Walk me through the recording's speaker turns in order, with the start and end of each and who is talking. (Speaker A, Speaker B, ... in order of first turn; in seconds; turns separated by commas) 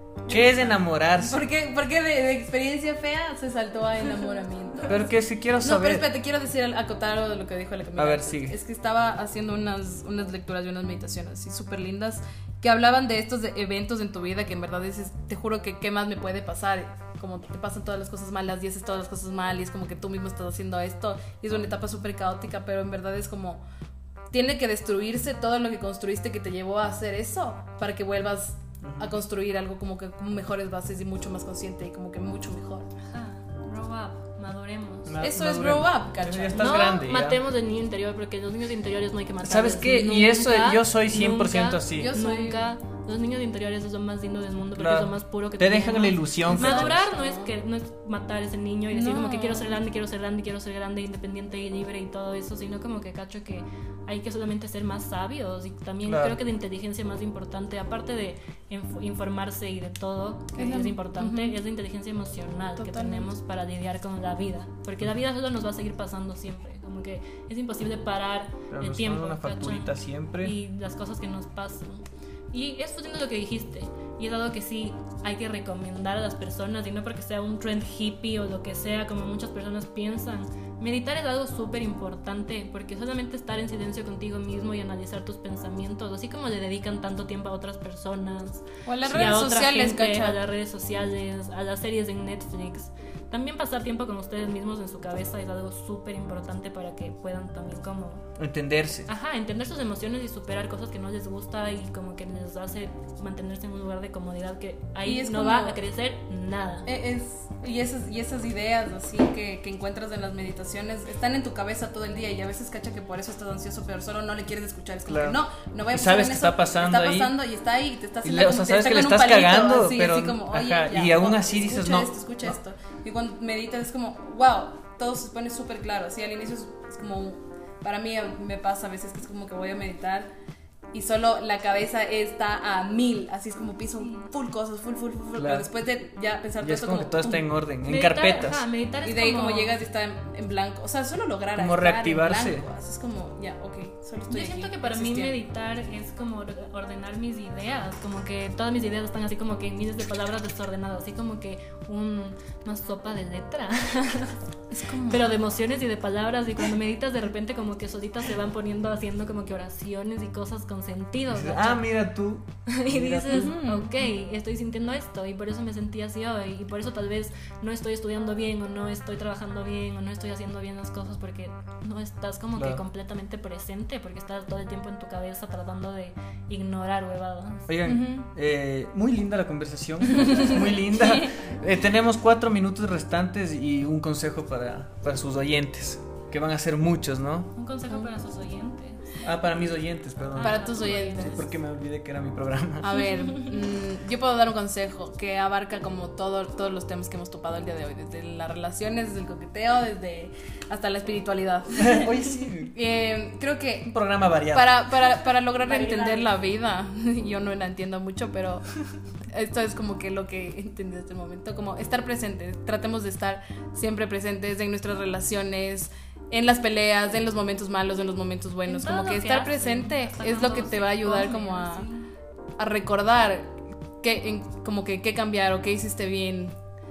Speaker A: 0.2-23.6, Speaker B: 0.3-1.4, Speaker B: 4.9-6.1, Speaker B: 8.0-8.6, Speaker A: 24.3-32.9, Speaker B: 28.8-29.2, Speaker C: 33.0-35.1, Speaker B: 35.0-37.4, Speaker A: 35.2-36.8, Speaker C: 36.5-98.2, Speaker B: 39.4-42.1, Speaker A: 41.9-42.7, Speaker B: 44.7-46.9, Speaker A: 46.4-47.5, Speaker A: 48.9-49.8, Speaker B: 56.0-56.4, Speaker A: 60.5-61.6, Speaker A: 62.8-63.3, Speaker B: 68.7-70.5, Speaker A: 88.8-90.4, Speaker B: 98.4-99.1, Speaker C: 99.1-106.9, Speaker A: 105.0-105.8, Speaker A: 106.8-130.3, Speaker B: 115.1-117.4, Speaker B: 118.2-122.5, Speaker A: 130.9-137.4, Speaker B: 135.3-135.7, Speaker B: 136.6-138.6, Speaker C: 137.8-139.8, Speaker A: 139.0-145.4, Speaker B: 141.6-142.7, Speaker C: 144.3-154.4, Speaker A: 154.7-155.4, Speaker C: 155.1-161.9, Speaker B: 161.3-163.5, Speaker C: 162.7-177.7, Speaker A: 163.3-164.0, Speaker B: 172.6-172.8, Speaker B: 177.7-187.5, Speaker A: 177.8-178.3, Speaker A: 180.2-180.6, Speaker C: 187.5-189.3, Speaker B: 189.2-193.0, Speaker C: 190.3-191.4, Speaker A: 190.4-191.5, Speaker A: 192.8-203.9, Speaker C: 193.2-193.5, Speaker B: 201.8-202.7, Speaker B: 203.8-204.8, Speaker A: 204.5-208.7, Speaker C: 205.7-206.3, Speaker A: 209.2-221.9, Speaker C: 218.7-222.1, Speaker A: 222.6-226.5